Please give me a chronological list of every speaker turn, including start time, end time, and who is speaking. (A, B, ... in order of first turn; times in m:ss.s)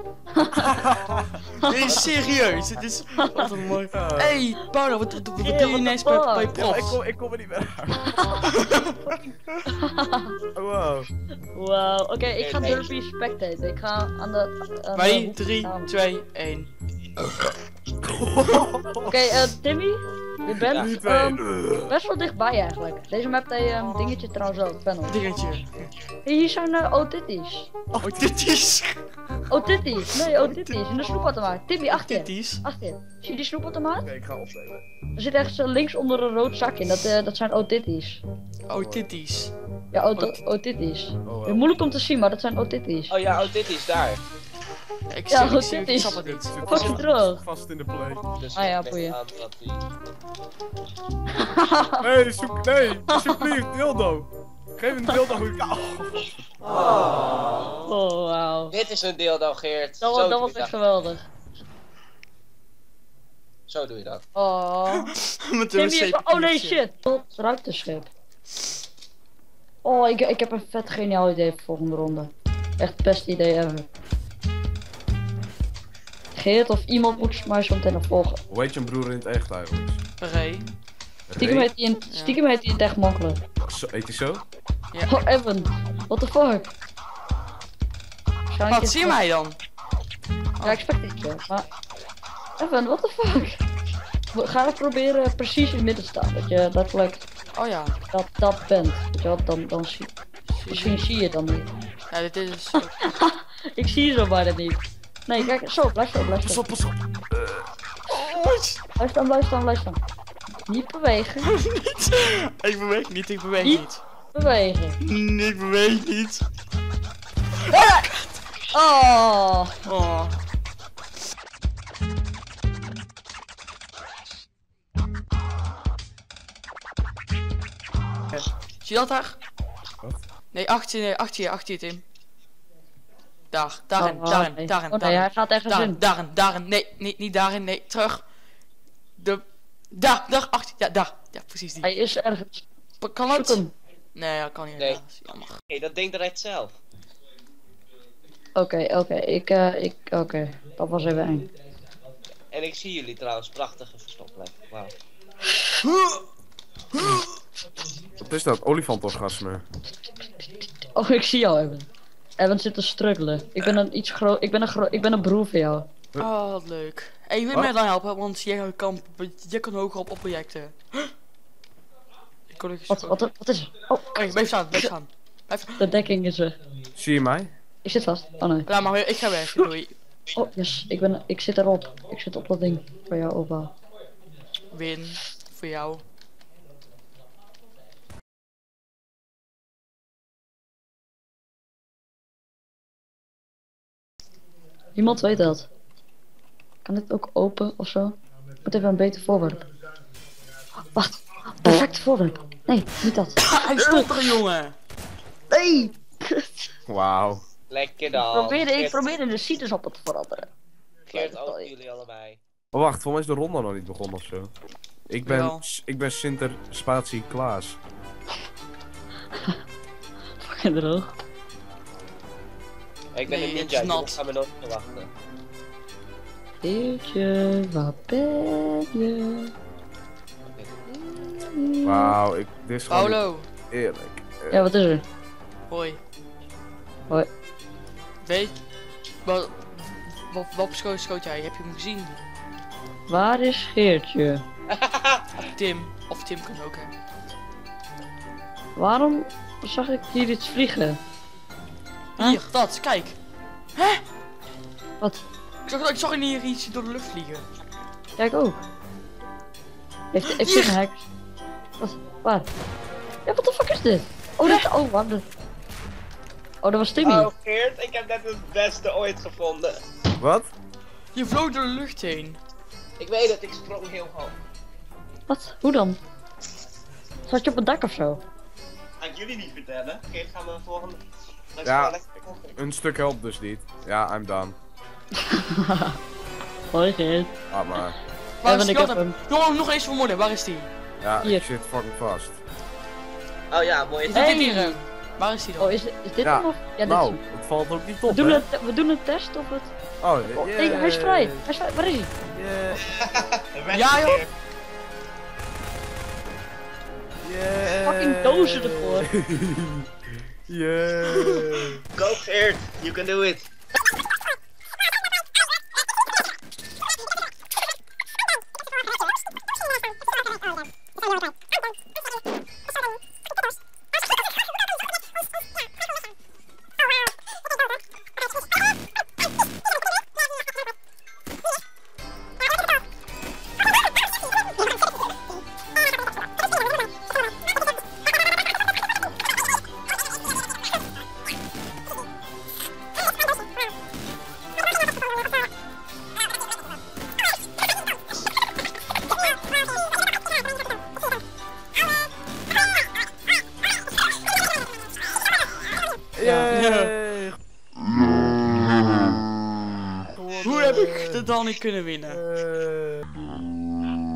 0:00.3-0:00.8 A
0:00.7-0:01.3 B
0:01.6-0:07.0 C
0:01.8-0:02.3 D
0:03.9-0:04.4 B
0:05.4-0:06.5 A
0:06.5-0:08.4 B
0:08.0-0:08.5 A
0:08.4-0:09.0 C
0:09.7-0:10.3 A
0:10.5-0:11.1 B
0:11.5-0:15.9 A
0:12.4-0:12.9 D
0:15.0-0:16.7 C
0:18.0-0:19.3 B
0:19.0-0:25.2 A
0:20.7-0:22.0 B
0:25.1-0:25.9 C
0:26.2-0:27.7 A
0:28.0-0:29.0 C
0:29.5-0:34.1 A
0:31.9-0:32.6 C
0:34.0-0:34.9 B
0:35.2-0:38.2 A
0:38.7-0:39.5 C
0:38.7-0:39.1 B
0:39.9-0:43.2 A
0:41.2-0:41.7 B
0:43.1-0:44.2 D
0:45.1-0:46.7 C
0:45.3-0:47.4 A
0:46.1-0:48.2 B
0:46.7-0:47.0 D
0:48.3-0:49.8 D
0:48.6-0:49.2 A
0:51.4-0:52.0 A
0:52.0-0:56.4 B
0:53.1-0:53.6 A
0:57.8-0:58.8 A
0:58.7-1:00.7 D
1:00.0-1:01.2 A
1:03.7-1:04.2 D
1:04.3-1:05.1 A
1:04.9-1:06.8 C
1:05.7-1:08.1 A
1:09.8-1:13.8 A
1:16.3-1:18.4 A
1:18.5-1:20.0 B
1:20.2-1:20.7 C
1:21.3-1:21.7 B
1:21.4-1:23.4 A
1:22.1-1:22.4 C
1:23.6-1:24.4 B
1:25.1-1:26.7 A
1:28.5-1:29.2 A
1:28.7-1:29.6 C
1:30.6-1:31.6 A
1:32.6-1:33.6 A
1:34.3-1:37.2 A
1:37.5-1:38.0 C
1:38.1-1:40.1 A
1:40.5-1:41.1 C
1:40.7-1:41.7 A
1:42.1-1:43.0 C
1:43.0-1:46.6 A
1:46.3-1:47.0 C
1:47.3-1:47.6 B
1:48.1-1:48.8 C
1:49.0-1:50.0 A
1:50.7-1:51.5 A
1:51.4-1:54.0 C
1:53.6-1:55.0 A
1:55.0-1:56.4 C
1:57.7-1:58.3 C
1:58.7-1:59.8 A
1:59.8-2:00.4 C
2:08.3-2:09.4 C
2:10.5-2:12.0 C
2:13.5-2:18.2 C
2:14.0-2:16.0 A
2:19.2-2:21.9 C
2:21.8-2:22.6 A
2:23.0-2:23.6 C
2:23.3-2:23.7 A
2:24.2-2:25.6 C
2:25.7-2:26.8 D
2:28.6-2:31.5 A
2:32.5-2:34.9 D
2:35.8-2:36.2 C
2:37.0-2:37.2 C
2:38.2-2:39.6 B
2:40.4-2:41.9 A
2:42.4-2:45.9 A
2:46.2-2:51.1 C
2:52.5-2:53.2 C
2:52.9-2:54.9 A
2:54.1-2:55.9 C
2:55.8-2:56.6 A
2:57.0-2:57.5 B
2:57.8-2:58.7 A
2:58.7-3:00.0 C
3:00.3-3:03.7 A
3:04.7-3:06.0 C
3:15.0-3:15.7 A
3:16.8-3:19.6 A
3:20.9-3:24.1 A
3:23.4-3:24.8 C
3:25.5-3:26.4 A
3:26.9-3:27.4 B
3:27.7-3:29.1 D
3:28.1-3:30.5 A
3:31.1-3:32.4 D
3:31.1-3:31.7 A
3:32.7-3:34.5 B
3:35.1-3:37.8 B
3:35.2-3:35.7 C
3:40.4-3:41.1 A
3:43.1-3:45.1 D
3:43.3-3:44.2 C
3:46.6-3:49.5 A
3:50.5-3:50.7 D
3:50.9-3:52.2 A
3:51.8-3:54.7 B
3:52.9-3:53.5 C
3:54.5-3:55.0 A
3:55.7-3:56.0 C
3:58.2-3:58.6 C
3:59.2-4:02.2 C
4:03.1-4:04.4 A
4:04.7-4:05.3 D
4:05.4-4:06.9 C
4:08.8-4:11.0 A
4:12.2-4:13.2 C
4:13.8-4:14.0 C
4:15.7-4:17.5 C
4:18.2-4:18.6 A
4:20.1-4:21.1 A
4:20.3-4:20.8 C
4:21.8-4:22.5 A
4:23.2-4:25.2 A
4:26.6-4:27.3 A
4:27.0-4:29.8 D
4:30.2-4:30.5 B
4:31.1-4:32.4 C
4:33.0-4:34.4 D
4:35.3-4:36.0 A
4:37.3-4:38.2 A
4:39.0-4:41.0 D
4:41.6-4:42.6 D
4:41.6-4:42.0 B
4:42.5-4:44.6 B
4:45.2-4:46.0 A
4:46.7-4:47.3 A
4:47.5-4:48.0 B
4:48.4-4:50.7 C
4:48.4-4:49.2 A
4:51.0-4:52.4 B
4:53.5-4:54.4 D
4:54.1-4:55.8 C
4:54.1-4:54.8 A
4:55.6-4:57.2 A
4:56.2-4:58.4 B
4:58.1-4:59.7 A
5:00.0-5:01.5 B
5:00.3-5:02.1 A
5:02.3-5:02.8 B
5:02.8-5:04.2 D
5:03.7-5:04.2 C
5:07.2-5:09.9 B
5:07.7-5:09.1 A
5:10.5-5:11.8 B
5:12.0-5:13.4 D
5:56.1-5:57.4 B
5:56.2-5:56.6 A
5:56.5-5:56.9 C
6:00.1-6:01.3 B
6:00.4-6:02.2 C
6:02.1-6:03.0 B